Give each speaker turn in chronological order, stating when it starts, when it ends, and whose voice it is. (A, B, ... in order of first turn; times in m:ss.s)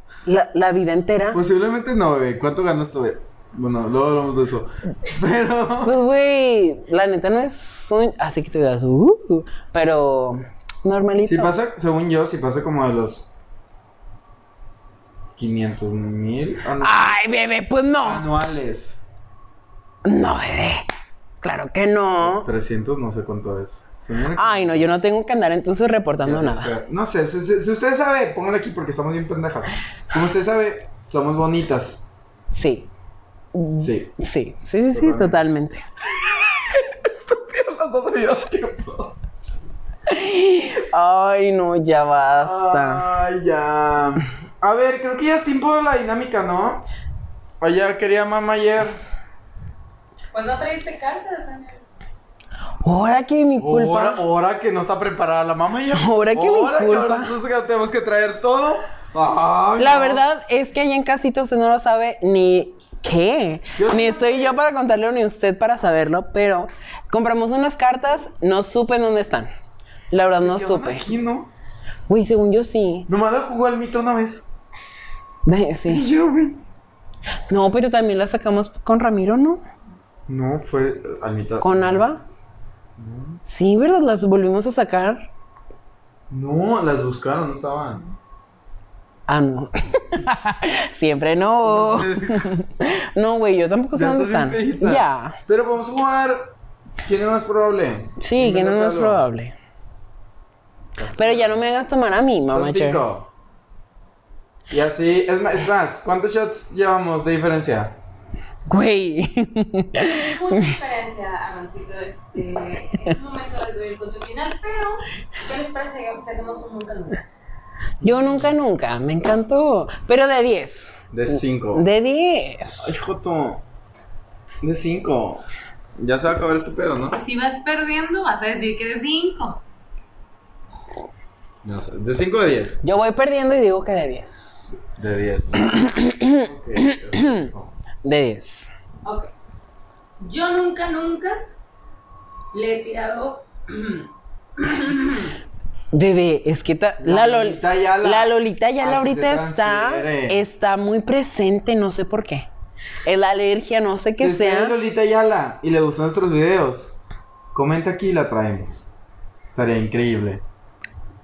0:00.2-0:01.4 A
0:01.3-0:05.9 B
0:05.8-0:11.5 A
0:11.2-0:13.3 B
0:15.4-0:17.1 B
0:16.8-0:18.2 A
0:18.0-0:19.0 B
0:20.0-0:20.9 A
0:21.4-0:22.5 A
0:22.2-0:24.9 B
0:24.4-0:26.7 A
0:26.2-0:32.0 B
0:32.5-0:32.9 A
0:33.5-0:35.8 A
0:33.8-0:34.1 B
0:34.9-0:35.4 B
0:36.2-0:39.2 B
0:40.1-0:43.0 A
0:42.4-0:46.8 B
0:47.6-0:49.0 B
0:50.3-0:51.8 C
0:52.8-0:54.2 A
0:53.6-1:00.2 B
0:55.9-0:57.3 A
0:59.8-1:09.5 A
1:03.8-1:04.6 B
1:10.1-1:11.1 A
1:10.3-1:11.5 B
1:12.1-1:13.1 A
1:13.1-1:14.5 B
1:15.4-1:16.1 A
1:15.9-1:16.6 B
1:17.5-1:19.6 A
1:20.3-1:22.1 B
1:21.6-1:22.2 A
1:23.0-1:23.4 B
1:23.5-1:25.3 A
1:26.3-1:28.2 B
1:29.3-1:35.4 A
1:31.6-1:32.6 B
1:33.9-1:36.5 B
1:37.0-1:39.3 B
1:38.2-1:39.5 A
1:41.0-1:41.6 B
1:41.1-1:43.0 A
1:42.5-1:43.3 B
1:44.7-1:48.0 B
1:48.7-1:50.7 A
1:50.1-1:57.2 C
1:58.0-2:03.0 A
1:58.0-1:58.5 B
2:01.1-2:01.8 B
2:02.8-2:03.6 B
2:04.6-2:05.4 B
2:06.0-2:07.2 B
2:07.1-2:09.6 C
2:11.6-2:12.8 B
2:12.8-2:14.8 A
2:15.0-2:15.6 B
2:15.6-2:17.5 A
2:16.4-2:17.7 B
2:18.0-2:18.7 A
2:19.0-2:19.3 C
2:20.2-2:21.4 C
2:22.5-2:25.3 C
2:25.9-2:32.5 A
2:27.0-2:30.4 B
2:33.0-2:34.8 A
2:34.2-2:37.0 B
2:37.5-2:38.9 B
2:39.5-2:40.4 B